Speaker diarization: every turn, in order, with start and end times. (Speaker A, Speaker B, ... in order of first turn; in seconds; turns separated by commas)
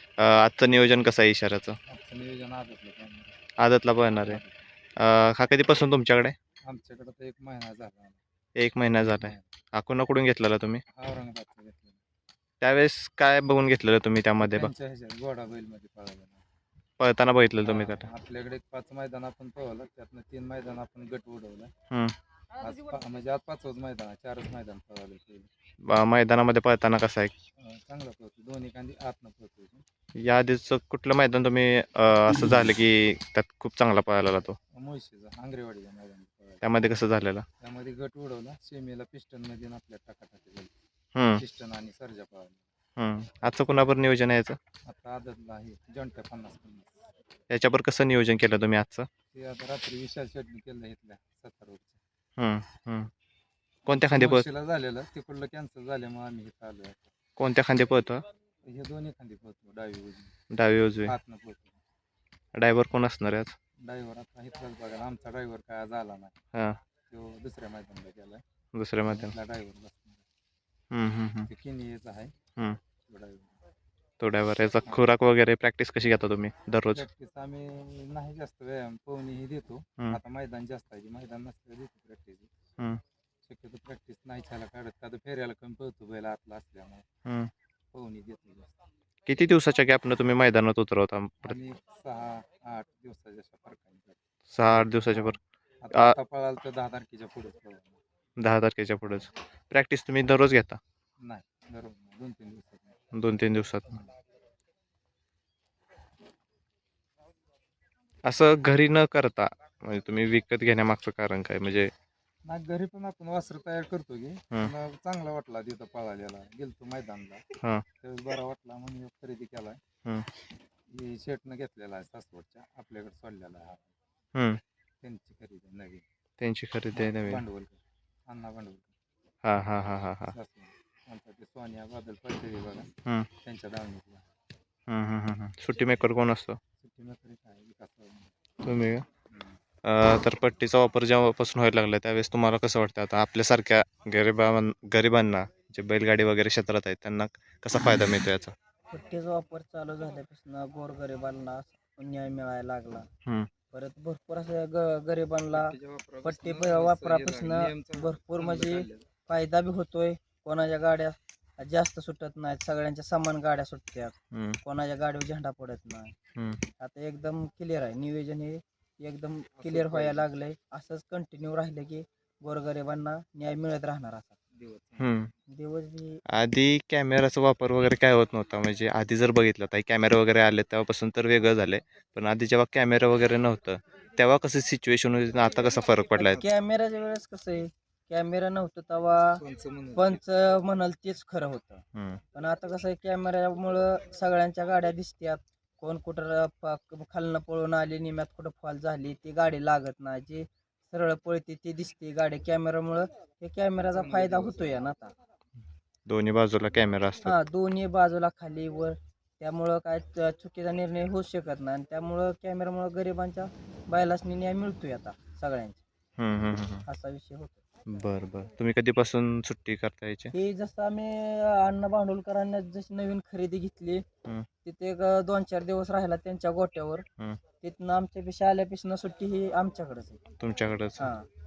Speaker A: 0.2-1.8, Speaker B: 1.9-3.4, Speaker A: 3.6-4.4, Speaker B: 4.2-4.7, Speaker A: 5.0-6.3, Speaker B: 6.6-8.2, Speaker A: 8.6-10.8, Speaker B: 9.0-9.5, Speaker B: 10.9-12.0, Speaker A: 12.6-14.7, Speaker B: 14.4-16.4, Speaker A: 17.0-18.1, Speaker B: 17.6-21.7, Speaker A: 21.9-22.1, Speaker B: 22.6-25.5, Speaker A: 25.9-27.3, Speaker B: 27.6-29.8, Speaker A: 30.1-34.6, Speaker B: 34.7-36.7, Speaker A: 36.6-37.5, Speaker B: 37.6-40.7, Speaker A: 41.1-41.4, Speaker B: 41.4-42.6, Speaker A: 43.0-44.6, Speaker B: 44.9-47.1, Speaker A: 47.5-49.1, Speaker B: 49.3-52.0, Speaker A: 52.4-53.1, Speaker A: 53.9-54.5, Speaker B: 54.1-57.1, Speaker A: 57.4-58.2, Speaker B: 58.7-60.3, Speaker A: 60.5-61.1, Speaker B: 61.0-61.8, Speaker A: 62.5-63.5, Speaker B: 63.8-66.4, Speaker B: 67.1-68.4, Speaker A: 68.7-69.3, Speaker B: 69.1-70.2, Speaker A: 70.9-71.5, Speaker B: 71.5-72.3, Speaker B: 73.0-73.5, Speaker A: 74.2-77.0, Speaker B: 76.9-82.5, Speaker B: 83.4-87.0, Speaker A: 87.2-87.5, Speaker B: 87.9-88.8, Speaker A: 89.3-91.6, Speaker B: 91.4-98.0, Speaker A: 94.5-95.4, Speaker A: 98.4-100.8, Speaker B: 101.2-103.0, Speaker A: 103.1-104.0, Speaker A: 108.2-111.9, Speaker B: 112.5-117.4, Speaker B: 118.0-119.8, Speaker B: 120.9-123.9, Speaker A: 124.3-124.6, Speaker B: 125.0-126.0, Speaker A: 126.4-127.4, Speaker B: 126.9-128.9, Speaker A: 129.4-130.3, Speaker B: 130.3-132.9, Speaker B: 133.4-134.3, Speaker A: 134.9-136.6, Speaker B: 136.8-138.3, Speaker A: 138.6-139.0, Speaker B: 139.3-139.6, Speaker A: 139.8-148.5, Speaker C: 148.9-153.1, Speaker C: 153.7-166.2, Speaker B: 155.5-159.1, Speaker A: 164.3-164.6, Speaker A: 166.3-166.6, Speaker C: 166.8-174.3, Speaker B: 169.5-170.3, Speaker B: 174.5-175.2, Speaker A: 175.0-175.3, Speaker C: 175.5-176.2, Speaker A: 176.3-186.4, Speaker C: 186.2-189.4, Speaker B: 189.4-190.2, Speaker C: 189.9-205.1, Speaker A: 191.9-192.2, Speaker B: 203.9-204.8, Speaker A: 206.1-207.4, Speaker C: 207.2-215.8, Speaker A: 216.2-216.8, Speaker C: 216.9-217.6, Speaker A: 217.9-220.3, Speaker C: 220.3-224.0, Speaker C: 224.6-227.0, Speaker C: 227.6-230.2, Speaker A: 230.4-231.1, Speaker C: 231.0-231.2